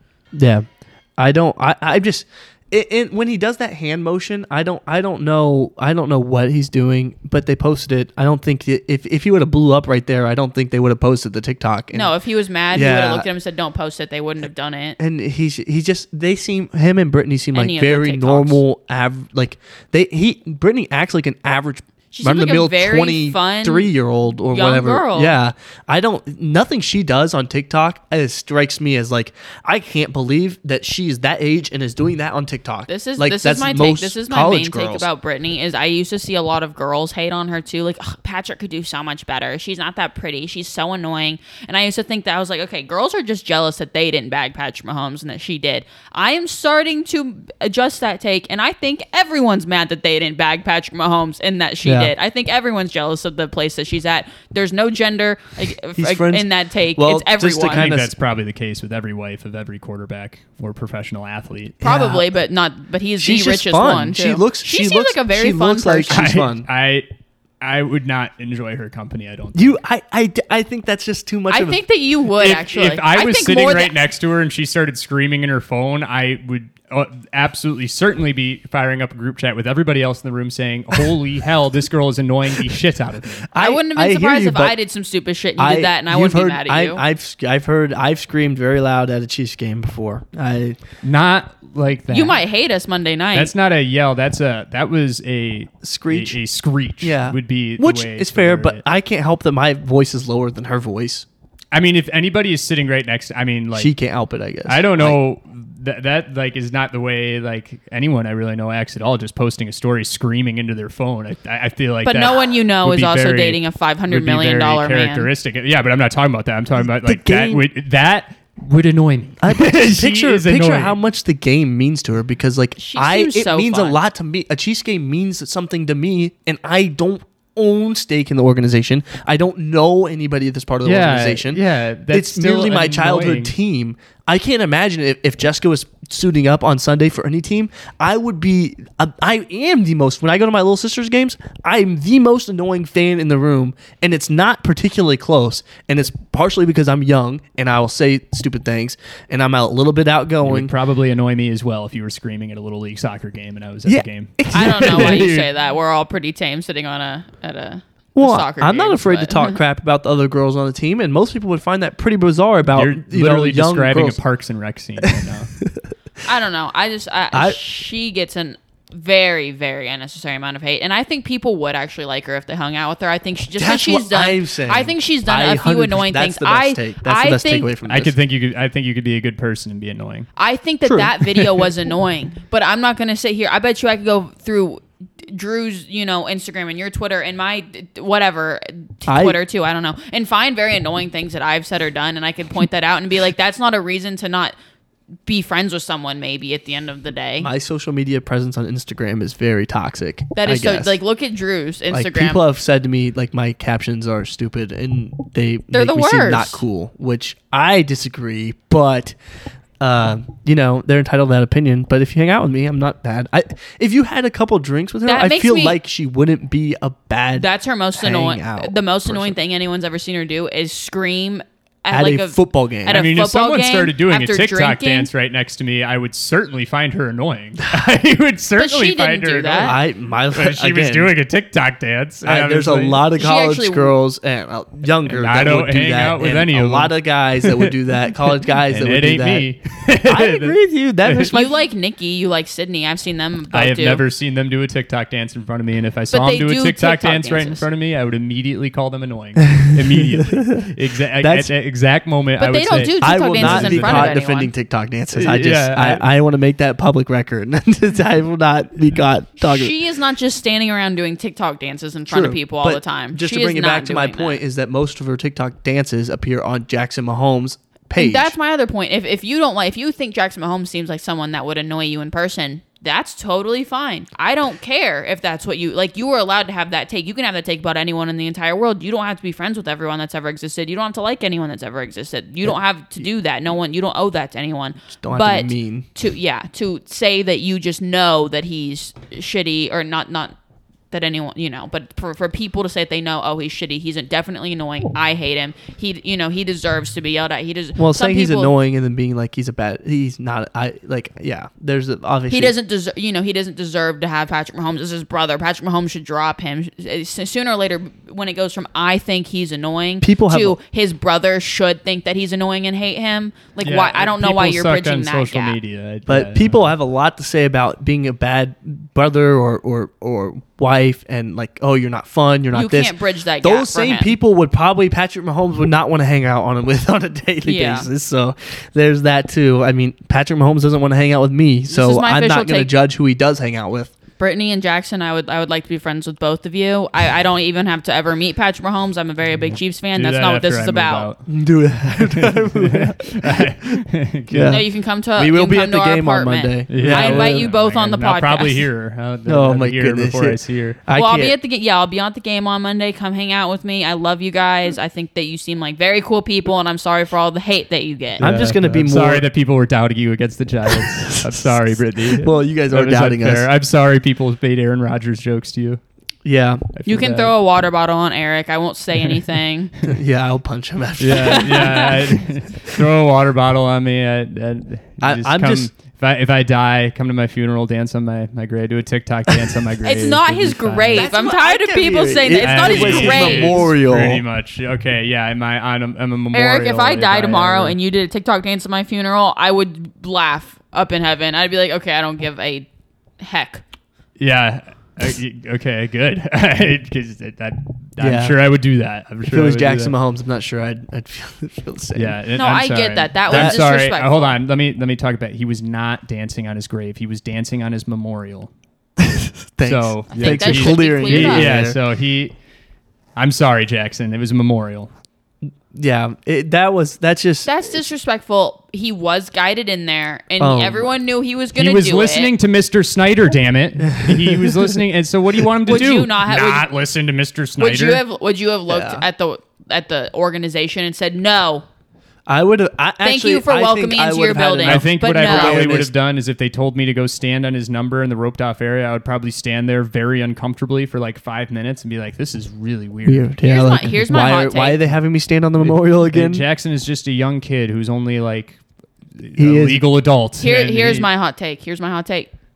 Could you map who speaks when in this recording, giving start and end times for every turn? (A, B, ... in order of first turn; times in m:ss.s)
0:00.3-0:12.1 A
0:11.9-0:15.0 B
0:12.7-0:13.2 A
0:15.0-0:35.1 A
0:17.5-0:18.6 B
0:22.1-0:23.9 B
0:24.5-0:25.3 B
0:32.9-0:57.9 B
0:51.8-0:52.1 A
0:55.9-0:58.1 A
0:57.7-1:01.8 C
1:01.8-1:02.2 A
1:01.8-1:06.2 B
1:03.2-1:06.6 A
1:06.1-1:07.1 C
1:07.6-1:09.8 C
1:09.5-1:11.8 A
1:11.5-1:14.0 B
1:12.4-1:23.5 C
1:23.5-1:24.8 A
1:23.5-1:27.0 B
1:25.6-1:30.8 A
1:31.0-1:32.4 C
1:32.1-1:33.5 B
1:33.3-1:38.8 C
1:35.8-1:36.4 A
1:37.0-1:41.2 A
1:41.7-1:43.9 C
1:43.7-1:45.2 A
1:44.6-2:01.0 C
1:52.0-1:55.3 B
1:57.0-1:57.6 A
1:59.4-2:30.7 A
2:02.8-2:04.0 B
2:10.8-2:13.5 C
2:30.4-2:35.5 C
2:33.8-2:35.3 A
2:34.5-2:39.6 B
2:38.2-2:44.2 A
2:42.7-2:45.5 C
2:45.0-2:45.8 A
2:46.2-2:57.7 B
2:47.3-2:47.6 A
2:53.6-2:58.1 A
2:57.8-3:00.3 C
3:00.4-3:14.5 B
3:00.8-3:01.1 A
3:09.1-3:09.4 A
3:15.2-3:17.5 B
3:17.4-3:21.0 A
3:20.3-3:22.4 B
3:21.9-3:29.2 A
3:25.7-3:26.6 B
3:29.8-3:39.3 A
3:35.0-3:35.8 B
3:37.4-3:45.1 B
3:41.9-3:43.0 A
3:42.9-3:49.8 C
3:48.6-3:49.8 B
3:49.5-3:51.1 A
3:50.3-3:53.0 C
3:52.2-3:59.5 A
3:53.2-3:54.0 B
3:55.0-3:57.7 C
3:58.4-4:01.3 C
4:00.0-4:01.5 A
4:01.3-4:04.0 B
4:03.5-4:14.2 C
4:06.1-4:07.6 B
4:09.5-4:11.5 A
4:12.4-4:14.5 B
4:13.0-4:19.8 A
4:15.1-4:16.0 C
4:19.4-4:24.4 B
4:22.1-4:28.3 A
4:27.9-4:50.4 B
4:44.9-4:45.9 A
4:50.9-4:58.5 B
4:57.8-5:02.5 A
5:02.3-5:15.6 B
5:10.0-5:10.6 A
5:13.6-5:16.6 C
5:16.0-5:33.9 A
5:22.5-5:24.2 B
5:27.4-5:27.9 B
5:31.7-5:32.7 B
5:34.2-5:41.1 B
5:39.3-5:41.3 C
5:41.2-5:43.8 A
5:42.0-5:44.6 C
5:44.3-5:47.5 A
5:44.4-5:48.6 B
5:46.7-5:50.8 C
5:49.2-5:51.3 A
5:50.9-5:58.3 B
5:58.2-6:05.8 C
5:58.2-5:59.2 A
6:01.3-6:03.5 A
6:06.2-6:06.6 A
6:06.7-6:07.3 C
6:06.8-6:09.7 B
6:09.8-6:12.8 A
6:11.0-6:21.1 C
6:11.1-6:12.1 B
6:15.0-6:15.7 A
6:19.8-6:23.6 B
6:20.9-6:24.2 A
6:22.4-6:27.8 C
6:26.3-6:32.7 B
6:33.2-6:33.6 B
6:34.2-6:39.9 C
6:38.0-6:38.4 A
6:39.3-6:42.2 A
6:41.9-6:48.5 C
6:42.3-6:44.3 B
6:43.3-6:43.6 A
6:49.0-6:51.8 A
6:49.6-6:52.3 C
6:50.1-6:51.5 B
6:53.2-6:54.9 C
6:55.7-6:57.8 A
6:57.4-7:02.3 B
7:00.4-7:00.9 A
7:01.5-7:08.0 C
7:03.9-7:04.6 A
7:05.6-7:06.7 B
7:07.6-7:11.6 B
7:08.7-7:09.0 A
7:12.3-7:15.9 A
7:13.0-7:15.7 B
7:14.6-7:23.3 C
7:23.0-7:26.4 A
7:23.4-7:24.8 B
7:25.6-7:28.6 C
7:29.2-7:31.1 C
7:29.4-7:29.9 A
7:30.4-7:32.3 B